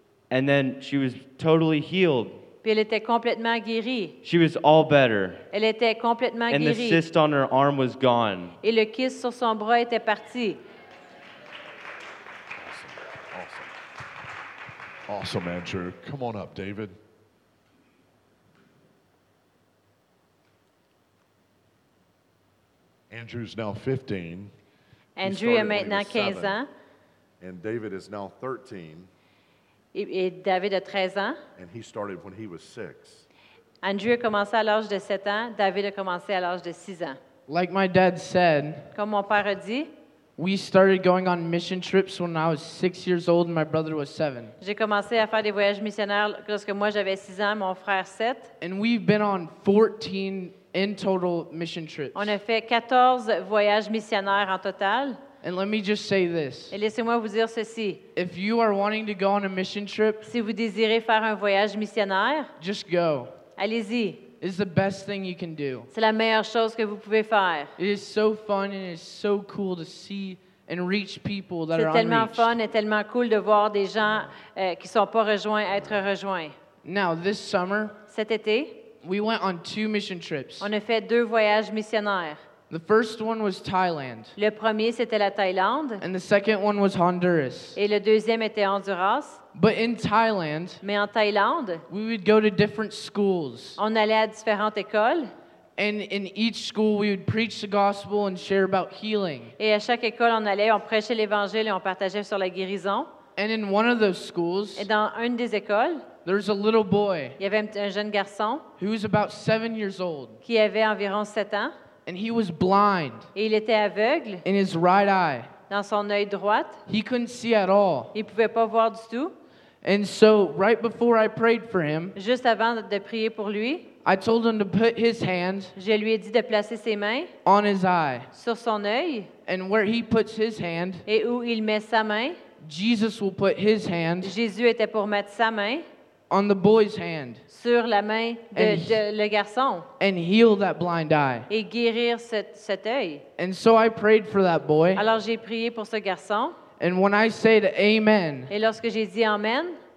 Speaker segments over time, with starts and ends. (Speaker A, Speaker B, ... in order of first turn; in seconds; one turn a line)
Speaker A: 0.3-2.4
Speaker B: 2.6-4.2
Speaker A: 4.2-5.4
Speaker B: 5.5-7.0
Speaker A: 6.5-8.6
Speaker B: 8.6-10.6
Speaker C: 12.6-13.7
Speaker C: 15.1-17.0
Speaker C: 23.1-24.5
Speaker B: 25.2-26.7
Speaker C: 25.2-26.6
Speaker C: 27.4-29.1
Speaker B: 29.9-31.4
Speaker C: 31.6-33.3
Speaker B: 33.8-37.2
Speaker D: 37.5-38.9
Speaker B: 38.9-39.9
Speaker D: 40.4-44.5
Speaker B: 44.6-48.5
Speaker D: 48.6-52.4
Speaker B: 52.1-55.2
Speaker D: 55.4-56.8
Speaker B: 56.7-58.0
Speaker D: 58.2-60.3
Speaker B: 60.2-62.5
Speaker D: 62.6-63.3
Speaker B: 63.6-64.2
Speaker D: 64.4-65.9
Speaker B: 65.9-67.7
Speaker D: 67.8-72.5
Speaker B: 71.7-76.5
Speaker D: 76.8-78.0
Speaker B: 78.1-78.8
Speaker D: 79.0-80.7
Speaker B: 80.6-82.4
Speaker D: 82.7-84.3
Speaker B: 84.4-86.0
Speaker D: 86.0-87.8
Speaker B: 87.8-89.4
Speaker D: 89.5-90.8
Speaker B: 90.8-91.8
Speaker D: 91.9-93.8
Speaker B: 93.8-95.3
Speaker D: 95.8-99.5
Speaker B: 99.6-103.1
Speaker D: 103.4-104.9
Speaker B: 104.8-106.0
Speaker D: 106.2-107.4
Speaker B: 107.4-108.6
Speaker D: 108.8-110.4
Speaker B: 110.4-111.7
Speaker D: 112.1-113.3
Speaker B: 113.3-114.4
Speaker D: 114.5-115.5
Speaker B: 115.7-116.8
Speaker D: 116.9-118.1
Speaker B: 118.1-119.3
Speaker D: 119.8-122.2
Speaker B: 122.2-123.9
Speaker D: 124.0-125.7
Speaker B: 125.8-127.3
Speaker D: 127.5-128.3
Speaker B: 128.3-129.3
Speaker D: 129.5-131.1
Speaker B: 131.1-132.4
Speaker D: 132.6-134.3
Speaker B: 134.2-135.9
Speaker D: 136.3-137.4
Speaker B: 137.5-139.9
Speaker D: 138.5-139.0
Speaker D: 140.0-141.5
Speaker B: 141.5-143.2
Speaker D: 143.4-145.0
Speaker B: 144.9-146.6
Speaker D: 146.8-148.5
Speaker B: 148.5-149.8